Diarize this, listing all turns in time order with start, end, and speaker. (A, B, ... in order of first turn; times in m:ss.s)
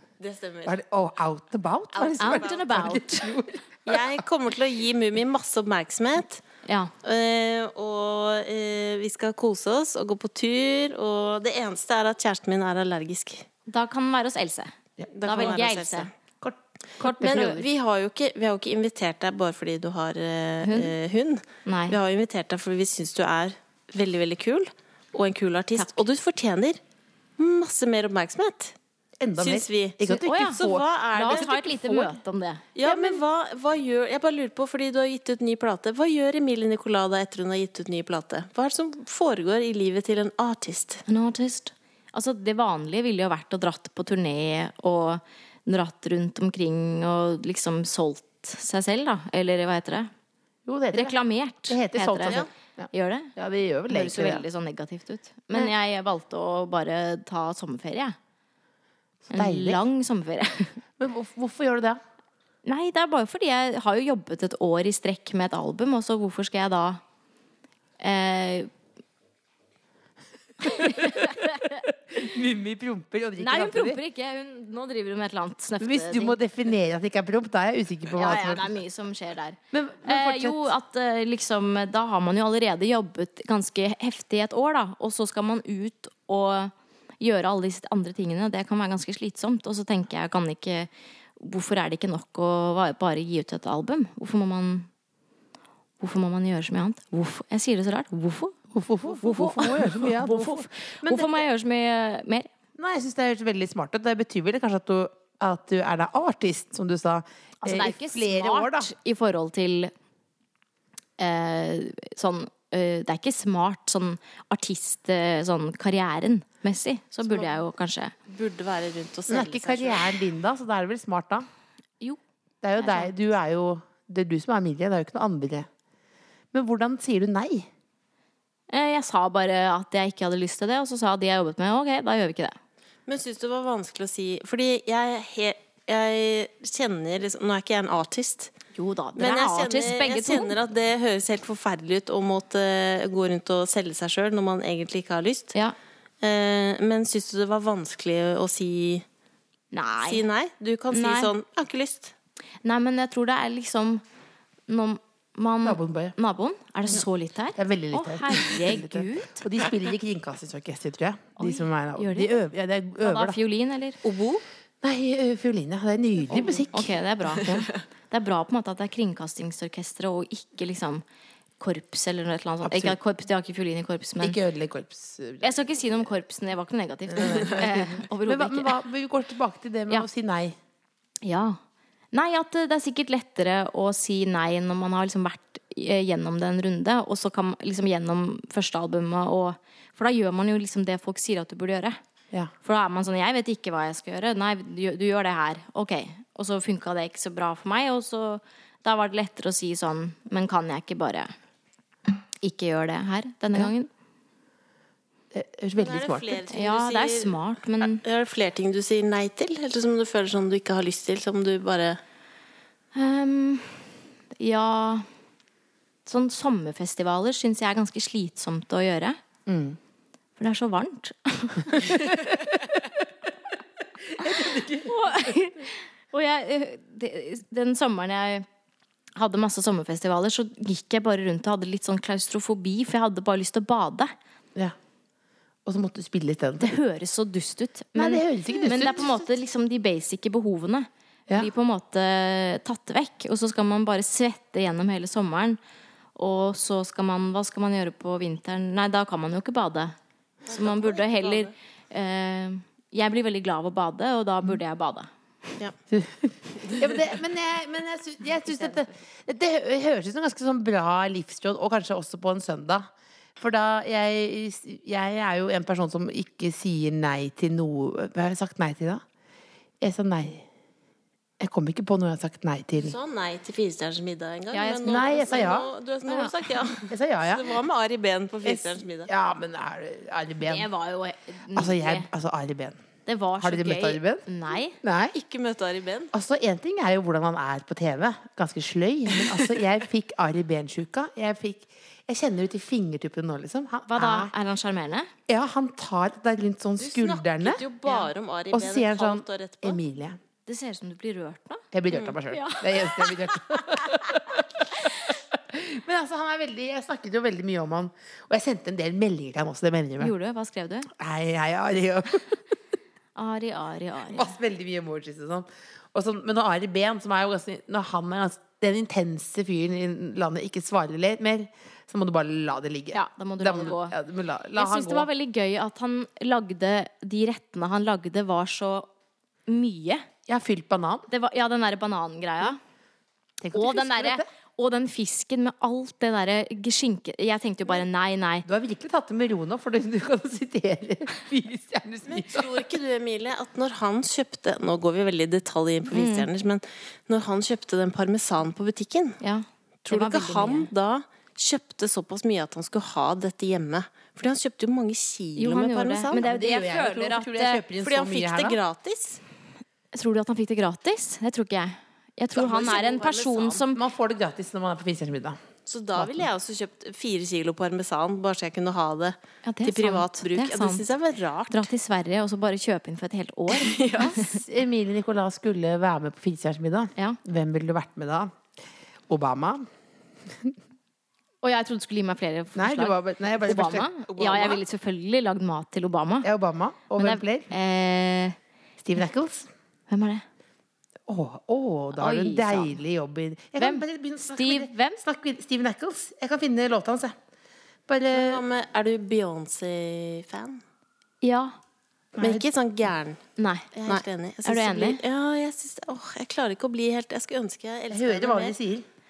0:00.2-0:00.8 A
0:00.6-0:04.2 B
0:02.0-0:03.0 A
0:02.2-0:03.3 C
0:03.8-0:06.4 A
0:06.6-0:06.9 C
0:07.0-0:13.5 A
0:13.7-0:16.1 C
0:15.0-0:15.6 B
0:15.1-0:16.1 A
0:16.4-0:17.6 B
0:17.0-0:17.6 C
0:17.2-0:26.8 A
0:20.6-0:21.0 C
0:21.7-0:22.0 C
0:27.4-0:28.8 A
0:29.2-0:30.9 B
0:29.4-0:32.1 A
0:30.1-0:30.6 C
0:31.2-0:32.7 C
0:32.8-0:41.0 A
0:32.8-0:33.2 B
0:41.1-0:50.1 C
0:50.7-0:54.5 B
0:50.9-0:53.3 C
0:53.9-0:58.2 C
0:59.3-0:59.8 B
0:59.3-1:00.8 C
1:01.0-1:02.0 B
1:02.6-1:07.0 C
1:08.0-1:08.7 C
1:10.6-1:14.0 B
1:10.7-1:11.8 C
1:13.4-1:16.4 C
1:15.8-1:18.7 B
1:18.2-1:34.9 C
1:19.7-1:20.7 B
1:36.0-1:42.5 C
1:38.7-1:41.4 B
1:42.8-1:48.9 B
1:47.6-1:49.9 C
1:51.2-1:58.1 C
1:58.3-2:00.2 A
1:59.3-2:01.5 B
2:02.6-2:05.7 B
2:02.8-2:03.1 C
2:06.5-2:07.7 B
2:08.7-2:12.6 C
2:13.1-2:18.5 A
2:18.7-2:20.6 C
2:19.2-2:25.6 A
2:26.2-2:29.0 A
2:29.7-2:30.2 C
2:30.0-2:32.1 A
2:30.9-2:31.3 C
2:32.6-2:34.0 C
2:34.7-2:39.4 C
2:35.6-2:36.2 B
2:37.6-2:43.4 B
2:41.4-2:42.4 C
2:43.0-2:44.0 C
2:44.0-2:44.4 A
2:44.8-2:47.7 B
2:46.3-2:51.0 C
2:47.4-2:47.6 A
2:51.6-2:54.4 C
2:52.6-2:53.0 B
2:54.2-2:55.6 B
2:55.4-2:58.8 C
2:57.1-3:00.6 B
3:01.2-3:01.6 C
3:02.1-3:12.0 C
3:12.6-3:21.3 C
3:22.4-3:23.9 C
3:25.3-3:26.4 B
3:25.8-3:32.0 A
3:26.5-3:28.0 C
3:32.9-3:33.8 C
3:34.4-3:35.1 C
3:36.1-3:39.2 C
3:39.5-3:39.8 B
3:40.4-3:42.3 C
3:41.8-3:42.8 B
3:44.0-3:45.4 B
3:44.7-3:48.5 C
3:49.2-3:54.1 C
3:55.7-3:56.7 B
3:56.6-4:05.6 C
3:58.0-3:59.2 B
3:58.5-3:59.2 A
4:06.2-4:15.1 C
4:10.5-4:11.5 A
4:15.9-4:29.0 B
4:16.6-4:17.0 A
4:18.5-4:18.9 C
4:29.8-4:30.5 B
4:31.4-4:33.0 B
4:32.8-4:39.1 A
4:34.5-4:35.5 C
4:34.8-4:35.7 B
4:36.1-4:36.4 C
4:36.9-4:37.6 B
4:38.4-4:40.7 B
4:40.4-4:42.1 C
4:41.6-4:42.8 B
4:43.1-4:44.8 C
4:43.4-4:44.2 B
4:44.8-4:45.2 B
4:45.1-4:46.1 A
4:46.1-4:54.3 B
4:53.9-4:55.1 C
4:55.3-4:57.6 B
4:56.8-4:59.8 A
4:58.5-5:00.2 B
5:00.5-5:01.7 C
5:01.7-5:10.1 B
5:02.3-5:05.1 C
5:10.0-5:10.9 C
5:10.9-5:12.4 B
5:13.2-5:14.3 C
5:14.1-5:25.1 B
5:22.9-5:24.0 C
5:24.6-5:28.9 C
5:29.5-5:30.1 C
5:30.3-5:31.1 B
5:31.1-5:32.6 C
5:33.4-5:34.3 B
5:33.5-5:38.5 C
5:38.4-5:42.6 B
5:42.1-5:49.2 A
5:45.9-5:46.3 C
5:49.2-5:50.7 C
5:49.9-5:56.3 A
5:55.4-5:57.6 C
5:56.1-5:58.6 B
5:57.8-5:59.2 A
5:59.9-6:03.8 C
6:02.3-6:03.6 A
6:03.7-6:05.4 B
6:05.7-6:11.6 A
6:06.0-6:06.3 B
6:09.4-6:10.8 C
6:11.5-6:14.3 C
6:13.5-6:14.3 A
6:14.0-6:18.4 B
6:19.1-6:19.7 B
6:20.3-6:20.6 B
6:21.4-6:26.3 C
6:22.5-6:24.5 B
6:24.2-6:24.6 A
6:26.2-6:27.5 B
6:27.0-6:28.4 C
6:28.8-6:29.5 B
6:29.9-6:30.2 C
6:31.1-6:37.2 B
6:31.9-6:32.8 C
6:33.6-6:35.0 C
6:37.9-6:38.4 B
6:38.1-6:40.6 A
6:41.2-6:41.6 C
6:42.2-6:42.5 B
6:42.2-6:43.2 A
6:43.4-6:45.0 C
6:43.8-6:48.6 A
6:47.9-6:48.9 B